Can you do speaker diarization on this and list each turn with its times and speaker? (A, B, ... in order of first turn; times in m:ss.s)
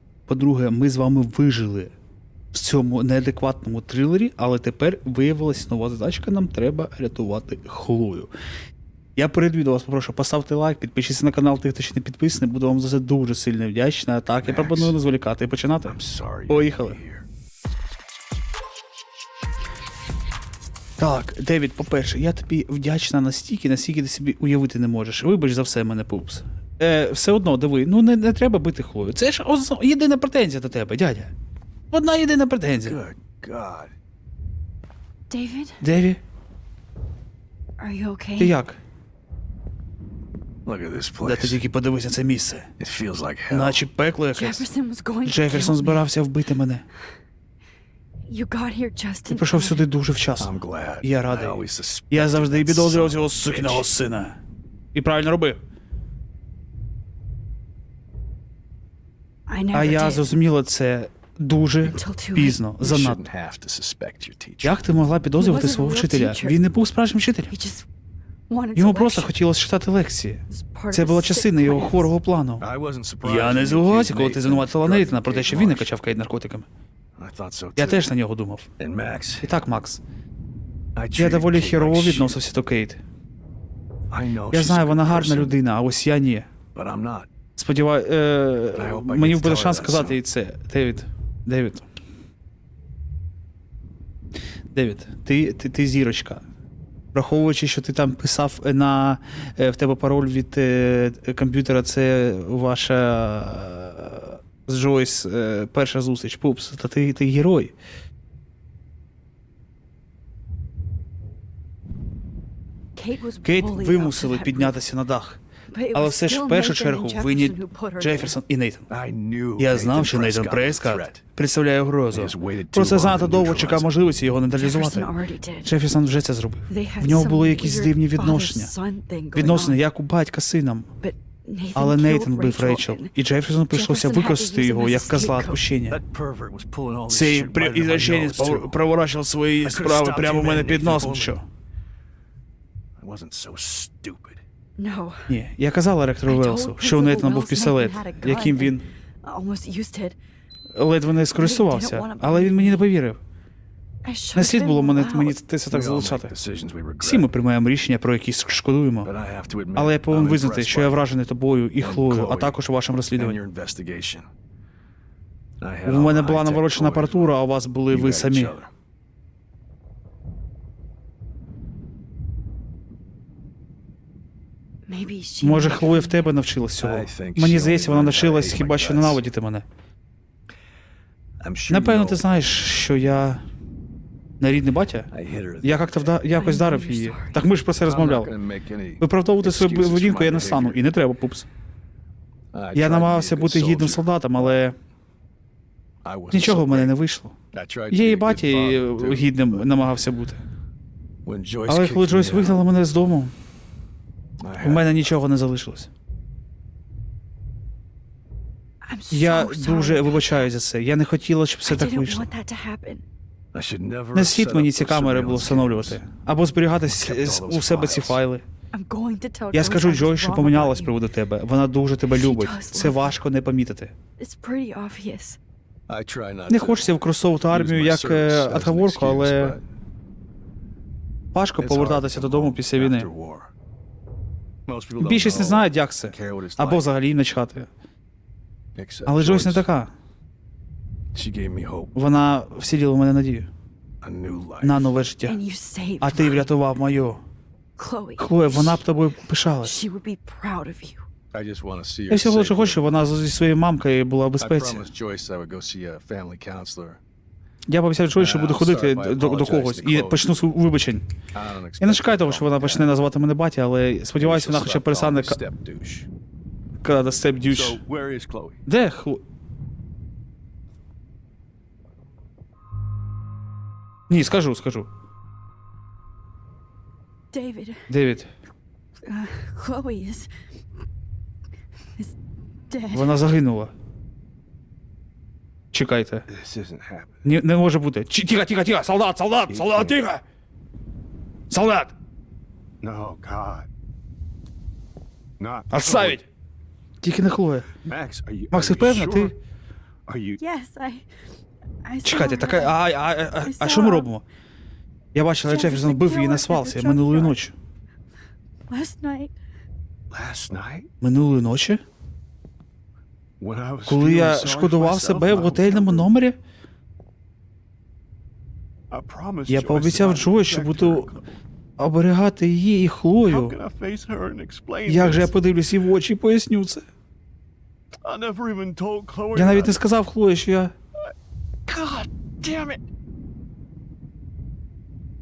0:00.3-0:01.9 A
0:02.5-0:08.3 A
0:09.2-0:16.0 A
0:14.4-0:15.0 B
0:15.9-0:17.2 B
0:16.5-0:17.0 A
0:21.0-0:31.3 A
0:31.9-0:33.0 A
0:32.8-0:33.9 B
0:35.3-0:35.8 C
0:35.8-0:36.2 A
0:37.8-0:38.5 C
0:38.4-0:38.8 A
0:40.6-0:41.6 B
0:41.2-0:42.7 A
0:42.8-0:43.8 B
0:43.5-0:44.6 A
0:44.3-0:46.1 C
0:45.2-0:46.8 A
0:48.3-0:49.8 C
0:49.3-0:54.4 A
0:50.4-0:53.9 B
0:54.9-0:55.6 A
0:59.5-1:00.3 C
0:59.7-1:03.2 A
1:01.8-1:02.6 C
1:02.8-1:04.8 B
1:04.6-1:07.5 A
1:05.4-1:06.7 C
1:07.5-1:07.9 C
1:08.5-1:09.3 C
1:08.8-1:12.6 A
1:10.5-1:12.1 C
1:12.6-1:16.0 B
1:13.2-1:16.7 A
1:17.2-1:18.1 B
1:17.8-1:18.7 A
1:18.8-1:19.5 B
1:19.4-1:20.0 A
1:20.9-1:22.4 B
1:21.2-1:23.0 A
1:24.1-1:25.6 B
1:24.5-1:26.5 A
1:26.7-1:27.3 B
1:27.6-1:31.8 A
1:28.7-1:30.2 B
1:34.7-1:36.4 A
1:37.1-1:47.7 A
1:53.0-1:54.8 C
1:53.4-1:55.4 A
1:55.7-1:58.4 C
1:55.9-1:58.9 A
1:58.9-2:01.2 B
1:59.6-2:05.1 A
2:02.1-2:03.9 B
2:04.5-2:05.7 C
2:05.6-2:08.7 A
2:06.7-2:09.8 C
2:09.3-2:10.9 A
2:11.0-2:13.1 C
2:11.7-2:16.0 A
2:13.7-2:15.6 C
2:15.9-2:18.8 B
2:17.1-2:21.4 A
2:19.6-2:21.4 B
2:23.0-2:24.4 B
2:24.8-2:25.3 C
2:25.3-2:28.8 A
2:26.2-2:30.2 C
2:30.7-2:33.2 A
2:31.3-2:32.9 C
2:34.0-2:35.4 C
2:34.3-2:36.3 A
2:35.7-2:37.3 B
2:37.0-2:39.1 A
2:39.0-2:41.0 B
2:39.7-2:43.4 A
2:41.8-2:42.6 B
2:43.2-2:44.3 B
2:45.6-2:47.3 B
2:45.8-2:48.5 A
2:47.9-2:48.7 B
2:54.9-2:56.3 C
2:55.4-2:59.6 A
2:56.8-2:59.2 B
3:01.4-3:02.2 B
3:01.7-3:03.4 A
3:04.4-3:05.1 A
3:05.1-3:06.1 B
3:05.6-3:08.3 A
3:06.3-3:07.4 C
3:07.8-3:10.8 B
3:09.0-3:11.5 A
3:12.5-3:14.1 B
3:12.7-3:14.8 A
3:16.0-3:16.9 B
3:16.3-3:17.3 A
3:17.5-3:20.0 B
3:17.9-3:20.4 A
3:21.2-3:22.6 B
3:21.7-3:23.3 A
3:24.4-3:25.1 B
3:24.6-3:25.9 A
3:28.8-3:30.5 C
3:29.1-3:32.3 A
3:31.6-3:33.0 C
3:33.5-3:36.0 B
3:34.1-3:38.4 A
3:36.8-3:38.2 B
3:38.7-3:41.0 C
3:39.5-3:43.9 A
3:42.1-3:43.2 C
3:44.2-3:45.4 C
3:45.9-3:49.6 B
3:46.5-3:49.6 A
3:51.3-3:53.1 A
3:51.6-3:53.5 B
3:54.7-3:56.9 B
3:55.0-3:57.7 A
3:58.7-3:59.6 B
3:59.0-3:59.9 A
4:01.1-4:01.9 B
4:01.9-4:03.5 A
4:04.0-4:04.9 B
4:04.6-4:05.4 A
4:05.2-4:06.4 C
4:06.0-4:07.2 A
4:07.8-4:08.8 C
4:08.2-4:09.7 A
4:09.6-4:11.0 C
4:11.3-4:12.9 B
4:12.1-4:14.9 A
4:14.4-4:17.0 B
4:17.7-4:21.0 A
4:18.1-4:20.3 B
4:21.3-4:22.9 B
4:21.8-4:25.4 A
4:24.1-4:26.1 B
4:26.8-4:27.8 A
4:27.5-4:28.6 B
4:28.7-4:29.2 A
4:34.1-4:34.9 A
4:37.3-4:37.9 C
4:37.9-4:38.3 A
4:39.0-4:40.3 C
4:42.7-4:43.2 C
4:42.9-4:43.7 A
4:45.7-4:46.3 A
4:46.3-4:47.2 B
4:47.2-4:50.2 A
4:49.5-4:50.0 B
4:51.5-4:51.9 A
4:52.8-4:53.7 B
4:55.4-4:56.2 B
4:55.7-4:56.2 A
4:57.0-4:57.7 A
4:57.8-4:59.3 B
4:58.5-4:59.4 A
5:00.1-5:00.4 B
5:00.4-5:01.1 C
5:01.8-5:02.8 C
5:02.0-5:04.2 A
5:03.4-5:04.1 C
5:05.1-5:07.5 A
5:05.4-5:07.4 C
5:08.7-5:09.3 C
5:10.1-5:10.9 B
5:11.0-5:11.8 A
5:13.4-5:16.1 B
5:13.8-5:16.4 A
5:18.9-5:21.2 B
5:19.5-5:21.1 A
5:21.8-5:23.6 A
5:23.2-5:25.3 B
5:24.8-5:26.8 A
5:28.0-5:29.8 B
5:29.3-5:30.7 A
5:31.6-5:32.8 B